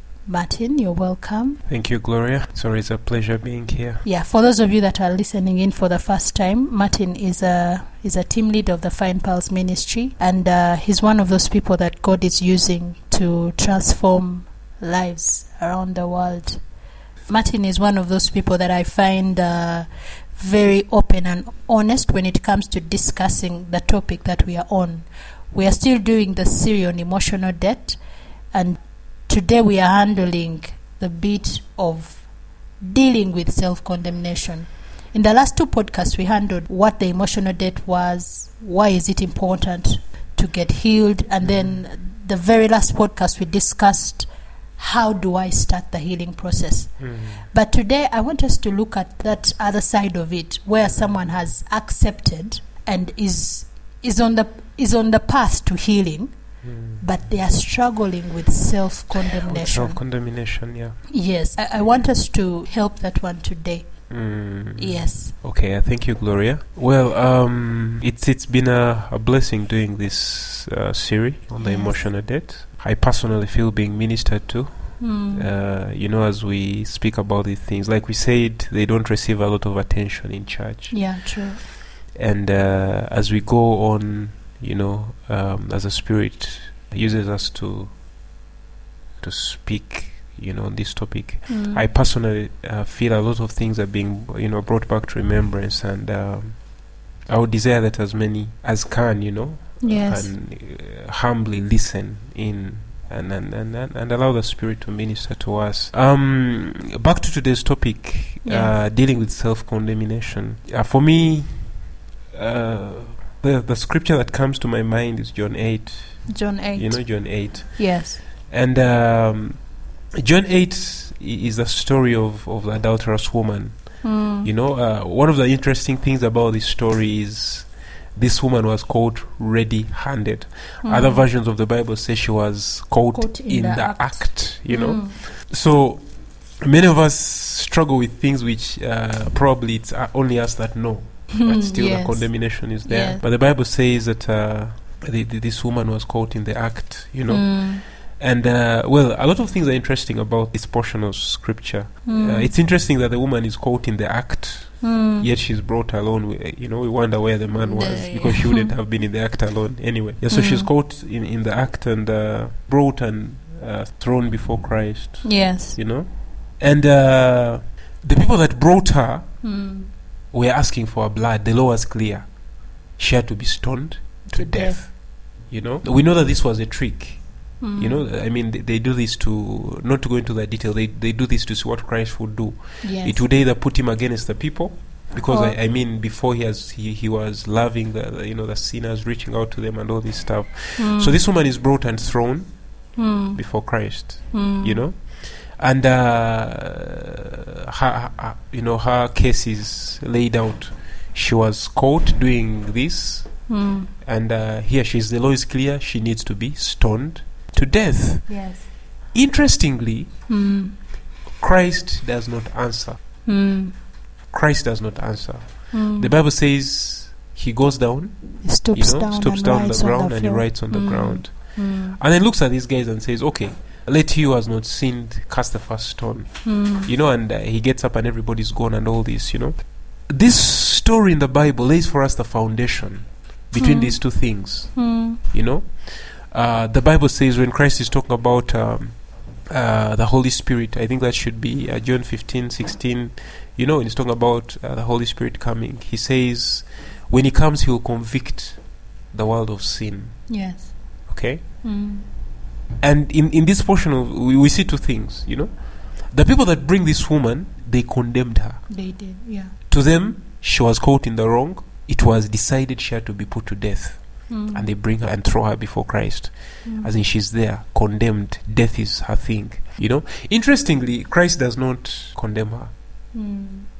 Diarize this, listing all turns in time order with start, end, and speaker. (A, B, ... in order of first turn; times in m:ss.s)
0:00.2-0:01.6 A
0:01.7-0:04.0 B
0:04.0-1:05.3 A
0:41.4-0:41.8 B
0:47.0-0:47.5 B
0:50.8-0:51.4 B
0:56.6-0:57.0 B
0:59.4-1:01.2 B
1:01.7-1:02.0 B
1:04.1-1:28.0 B
1:11.6-1:12.1 A
1:15.0-1:15.5 A
1:20.9-1:21.6 A
1:29.2-2:49.6 B
1:31.5-1:31.9 A
1:39.8-1:40.3 A
1:48.4-1:48.8 A
1:56.3-1:58.2 A
2:04.0-2:04.5 A
2:10.8-2:11.3 A
2:13.1-2:15.2 A
2:21.3-2:23.2 A
2:27.3-2:27.8 A
2:32.0-2:32.6 A
2:34.8-2:35.3 A
2:37.6-2:38.7 A
2:40.3-2:40.7 A
2:45.2-2:45.8 A
2:49.4-2:49.9 A
2:50.3-3:30.3 B
2:54.3-2:54.8 A
2:57.6-2:58.1 A
3:02.8-3:03.2 A
3:05.1-3:05.6 A
3:10.8-3:11.2 A
3:12.9-3:14.8 A
3:23.5-3:23.9 A
3:28.3-3:28.7 A
3:30.3-3:30.8 A
3:31.3-3:33.0 B
3:33.2-3:33.8 A
3:34.3-4:10.5 B
3:35.7-3:36.1 A
3:38.4-3:42.0 A
3:46.4-3:46.9 A
3:53.6-3:55.2 A
4:10.3-4:12.0 A
4:11.1-4:11.4 B
4:12.8-4:19.0 B
4:18.7-4:19.6 A
4:19.7-4:32.7 B
4:24.3-4:24.7 A
4:26.6-4:26.9 A
4:33.1-4:33.7 A